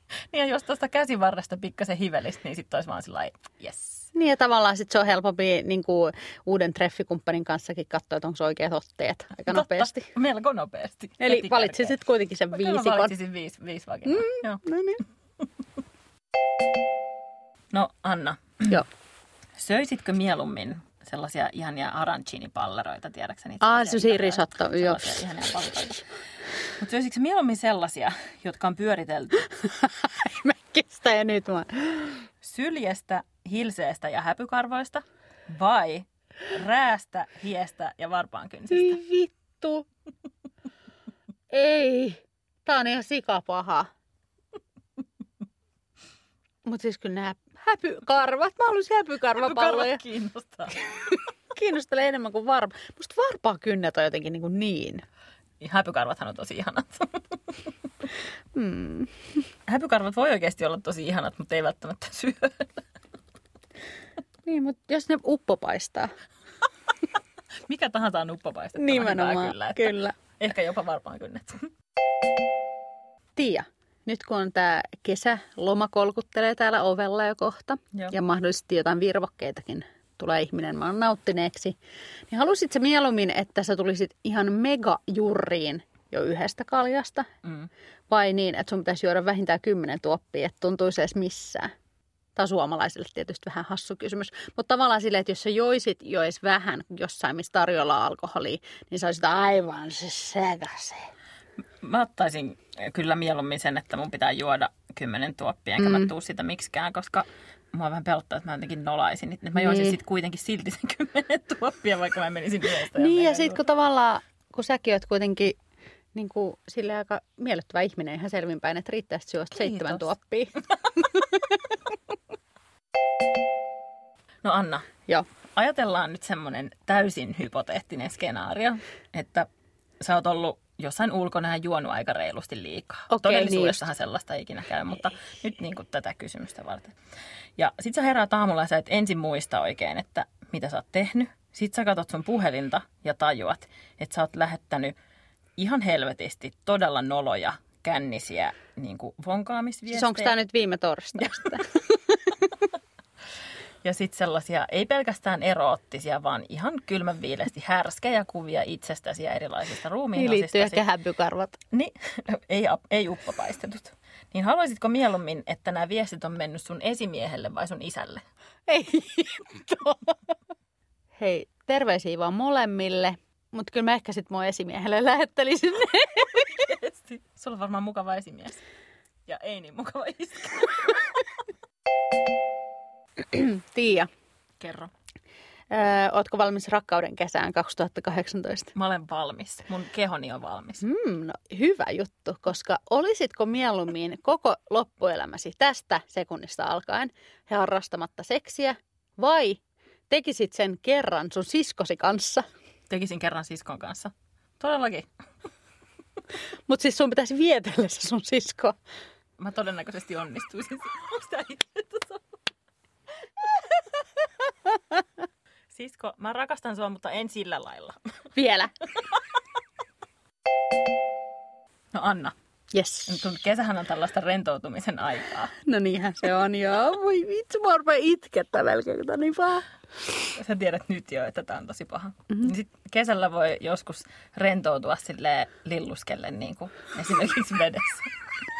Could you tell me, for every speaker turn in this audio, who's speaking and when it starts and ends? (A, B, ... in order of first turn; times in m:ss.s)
0:00.3-0:04.1 A
0:04.2-0:10.1 B
0:09.5-0:12.0 A
0:11.2-0:13.1 B
0:12.5-0:14.6 A
0:14.1-0:15.0 B
0:17.7-0:18.8 A
0:19.6-0:26.0 A
0:23.6-0:25.2 B
0:26.8-0:29.4 A
0:29.5-0:32.2 B
0:32.4-0:39.0 A
0:38.7-0:39.8 B
0:41.5-0:43.9 B
0:46.6-0:50.0 B
0:49.4-0:50.9 A
0:51.5-0:55.0 B
0:55.6-0:57.4 A
0:58.5-0:59.1 B
0:59.7-1:02.8 A
1:04.5-1:06.1 B
1:07.7-1:11.7 A
1:08.8-1:10.2 B
1:13.4-1:21.8 B
1:22.3-1:27.3 B
1:27.4-1:27.7 A
1:28.1-1:31.7 B
1:32.4-1:41.0 B
1:41.8-1:53.6 A
1:45.8-1:46.1 B
1:49.6-1:50.0 B
1:52.9-1:55.6 B
1:56.1-2:01.4 B
1:59.6-2:00.1 A
2:04.4-2:04.9 A
2:05.6-2:09.5 A
2:10.0-2:16.9 A
2:13.1-2:13.9 B
2:17.6-2:25.0 A
2:25.6-2:30.3 A
2:29.9-2:32.0 B
2:33.8-2:40.8 A
2:40.2-2:41.6 B
2:41.7-2:48.2 A
2:48.7-2:50.2 B
2:51.2-2:56.5 B
2:56.4-2:58.6 A
2:59.3-3:01.3 A
3:03.3-3:04.1 B
3:04.6-3:04.9 A
3:05.7-3:08.7 B
3:08.8-3:10.8 A
3:10.8-3:22.4 B
3:22.9-3:25.1 A
3:26.7-3:28.8 B
3:29.4-3:32.2 A
3:35.7-3:38.3 A
3:38.3-3:38.7 B
3:41.9-3:42.3 A
3:42.7-3:43.3 B
3:43.1-3:45.5 A
3:45.6-3:49.7 B
3:50.4-3:58.1 A